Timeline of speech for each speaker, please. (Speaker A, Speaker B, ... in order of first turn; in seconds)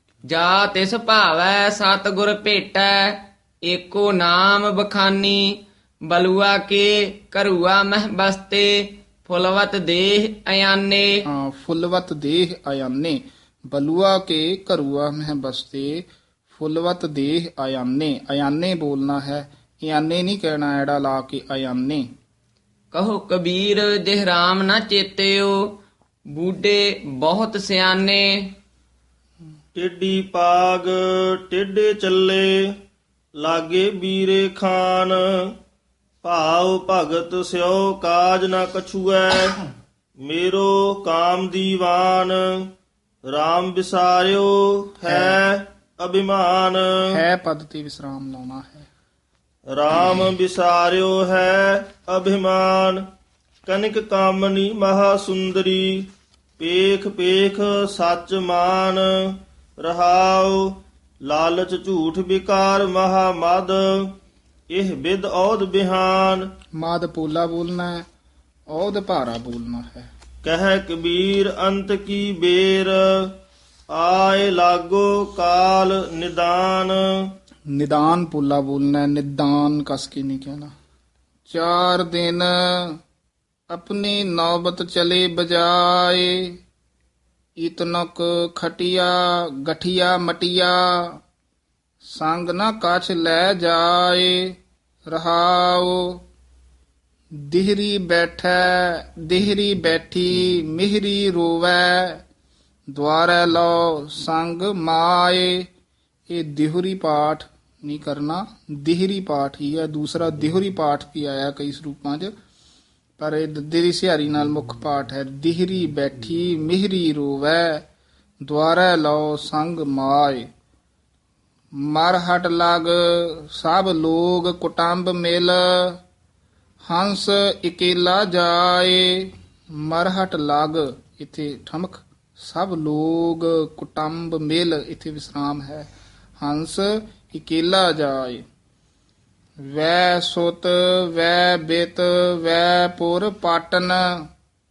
Speaker A: 0.3-11.2, 22.9-25.8, 26.3-28.5
Speaker B: 11.2-22.1, 45.0-45.4, 47.1-48.9, 66.8-68.1, 68.7-70.1, 77.7-80.7, 81.5-83.0, 83.7-86.6, 87.6-91.2, 92.0-94.5, 95.1-96.2, 97.3-102.2, 102.9-105.7, 106.3-112.3, 113.2-117.8, 118.4-120.5, 121.8-126.0, 126.9-135.9, 136.4-138.4, 139.6-144.3
Speaker C: 29.8-32.6, 33.4-35.2, 36.2-39.6, 40.2-42.4, 43.3-46.8, 49.7-53.0, 53.7-56.1, 56.6-59.1, 59.8-60.6, 61.3-64.1, 64.7-66.4, 70.4-73.1, 73.9-77.0